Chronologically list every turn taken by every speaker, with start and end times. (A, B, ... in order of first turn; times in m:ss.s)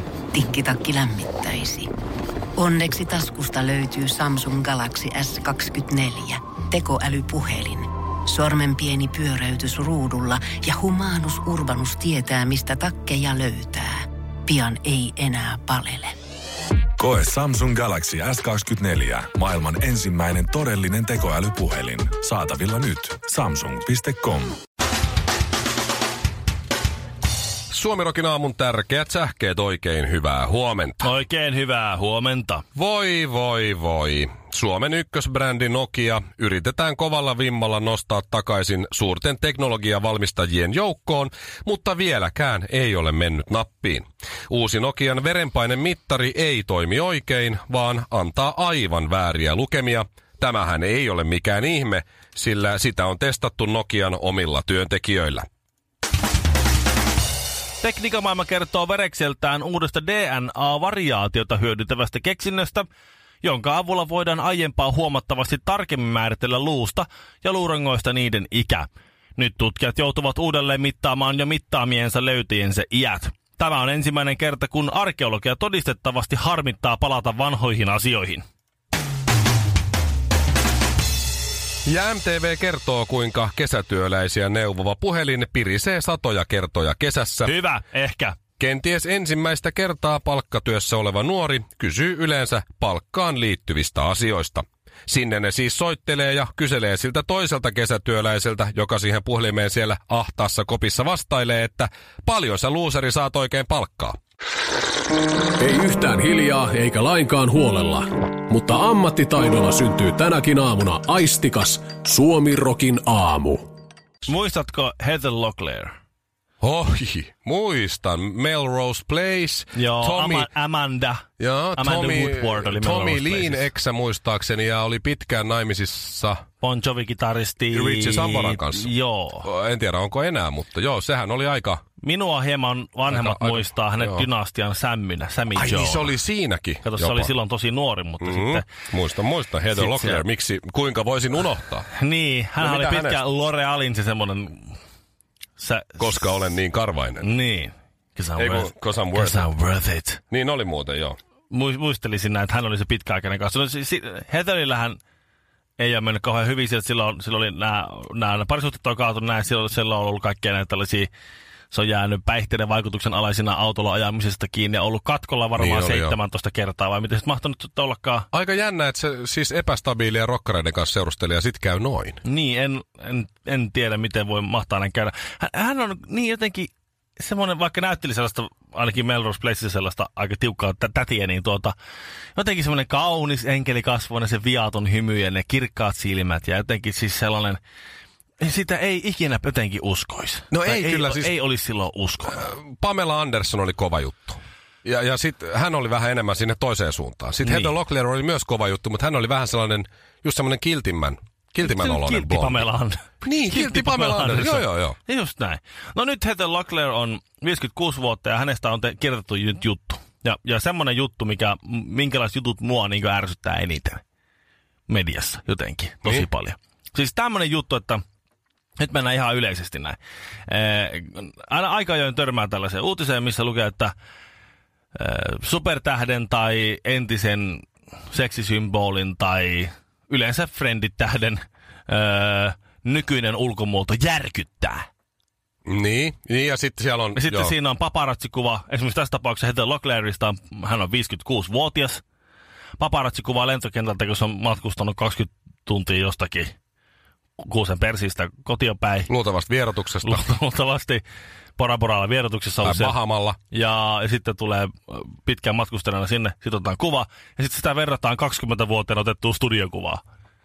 0:00.3-0:01.9 A
0:02.6-0:16.1 A
0:17.0-0:24.6 B
0:27.7-0:31.1 C
0:31.0-0:32.6 D
0:32.8-0:55.4 C
0:57.8-1:02.9 D
1:03.4-1:18.4 D
1:21.8-1:27.5 C
1:27.4-1:28.4 D
1:28.6-1:44.2 C
1:45.6-1:53.6 E
1:54.3-1:56.0 D
1:56.6-2:00.5 C
1:59.7-2:03.6 D
2:01.4-2:06.4 C
2:06.6-2:09.5 D
2:07.7-2:08.9 C
2:09.4-2:11.8 C
2:12.0-2:16.2 D
2:13.1-2:14.2 C
2:15.5-2:17.3 C
2:16.8-2:18.7 D
2:18.2-2:21.9 C
2:19.7-2:20.2 D
2:21.9-2:24.8 D
2:22.6-2:23.2 C
2:25.6-2:26.4 D
2:26.0-2:27.3 C
2:27.2-2:30.2 D
2:28.4-2:29.5 C
2:30.3-2:31.2 C
2:31.5-2:35.0 D
2:35.8-2:41.1 D
2:41.7-2:48.3 D
2:45.6-2:46.2 C
2:48.3-2:52.2 C
2:52.2-3:01.8 D
3:02.4-3:07.6 D
3:08.4-3:12.4 D
3:10.5-3:11.3 C
3:12.3-3:22.7 C
3:17.4-3:17.7 D
3:21.6-3:34.0 D
3:23.2-3:25.0 C
3:34.9-3:38.0 D
3:38.8-3:43.9 D
3:45.0-3:54.9 D
3:55.7-3:57.5 C
3:57.2-4:02.0 D
4:02.8-4:06.5 D
4:07.4-4:09.1 D
4:09.1-4:10.3 C
4:10.0-4:11.0 D
4:11.6-4:13.0 D
4:12.6-4:13.4 C
4:13.5-4:20.0 D